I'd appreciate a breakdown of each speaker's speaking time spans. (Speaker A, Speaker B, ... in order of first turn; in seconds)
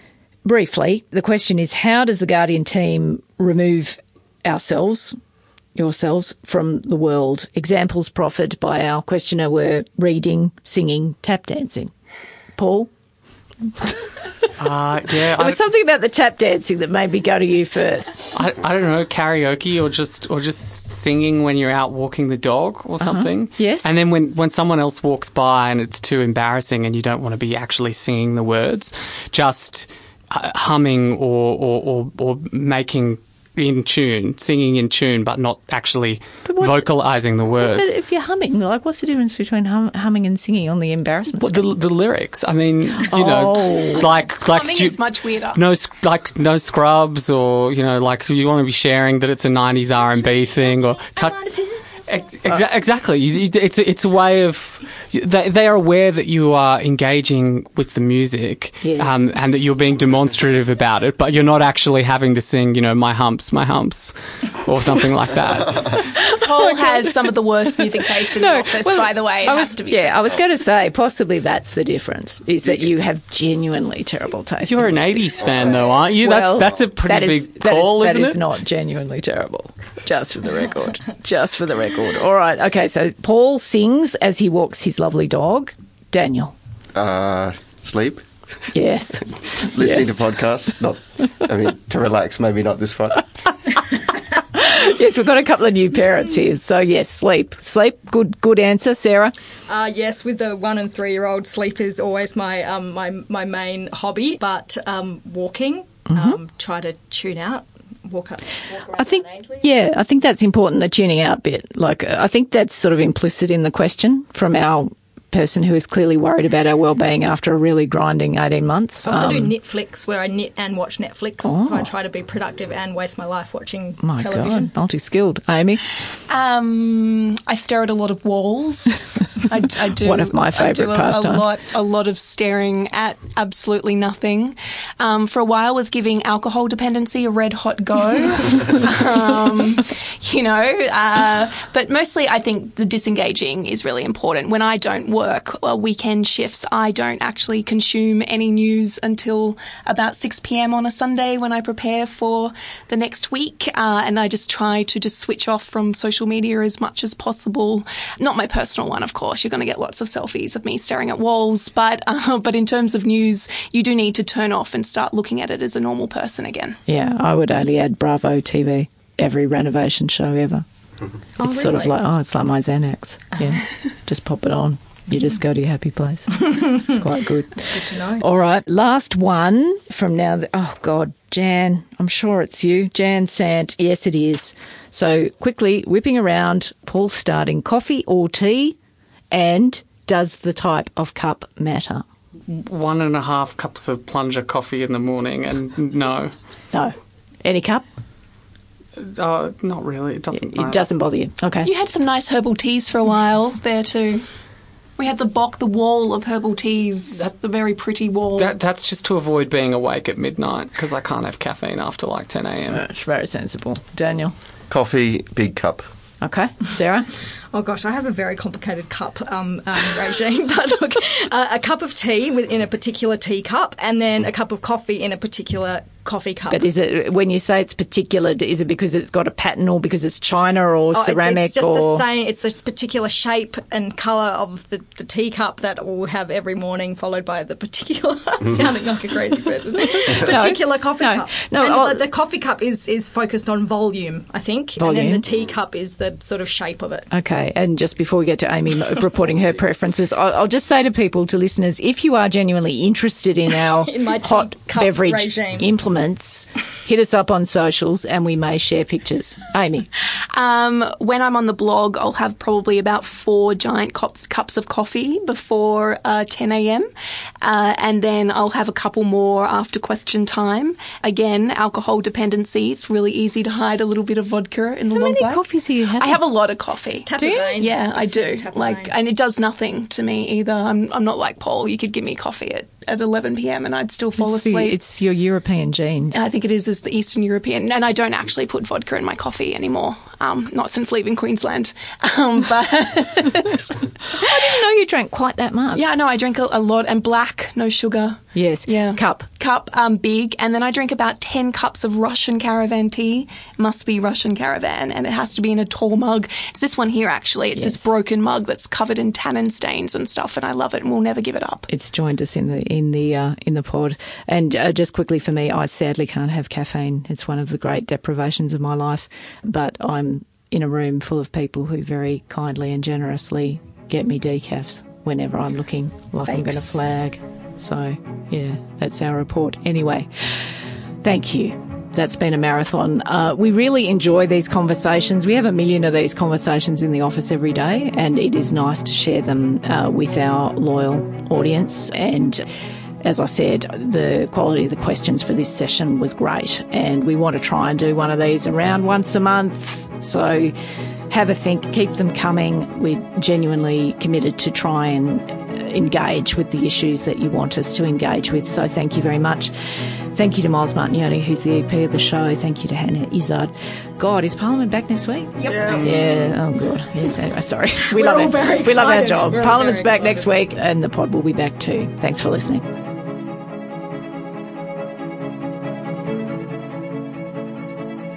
Speaker A: 0.5-5.2, 5.8-11.9, 12.6-12.9, 13.8-14.5, 15.3-18.3, 23.0-23.9, 36.5-36.9, 37.6-41.7, 43.1-44.1, 58.8-59.2, 68.3-75.0, 76.1-86.5, 88.7-90.2, 94.5-99.3, 106.1-106.4, 109.0-119.5, 121.4-121.9, 124.0-125.8, 130.0-131.5, 166.9-170.7, 171.4-188.8, 189.3-192.1, 196.7-197.8, 200.3-201.7, 212.7-214.3, 216.2-217.1, 226.5-232.1, 240.0-242.0, 244.8-245.3, 247.1-259.9, 274.9-276.2, 277.2-277.5, 284.2-286.2, 294.1-295.8, 298.4-299.3, 307.6-307.9, 311.7-330.1, 331.0-342.4, 343.0-350.5, 351.1-359.5, 360.1-372.7
Speaker B: 14.6-15.7, 18.3-37.9, 41.4-45.0, 45.5-51.4, 52.1-66.1, 74.7-78.4, 192.5-196.3, 199.0-200.8, 208.4-212.8, 365.7-366.3
Speaker C: 44.0-45.6, 66.3-70.4, 126.3-166.8, 201.6-204.2, 205.0-208.5, 260.3-266.9, 267.4-284.8, 286.1-293.9, 295.7-311.7, 326.3-326.8
Speaker D: 49.9-51.8, 99.7-109.7, 119.0-124.7, 171.4-171.9, 177.8-178.2, 217.5-226.7, 230.9-247.1, 253.7-255.7, 277.0-278.9, 365.4-366.0, 367.9-370.3
Speaker E: 87.0-88.2, 89.6-93.3, 214.7-215.8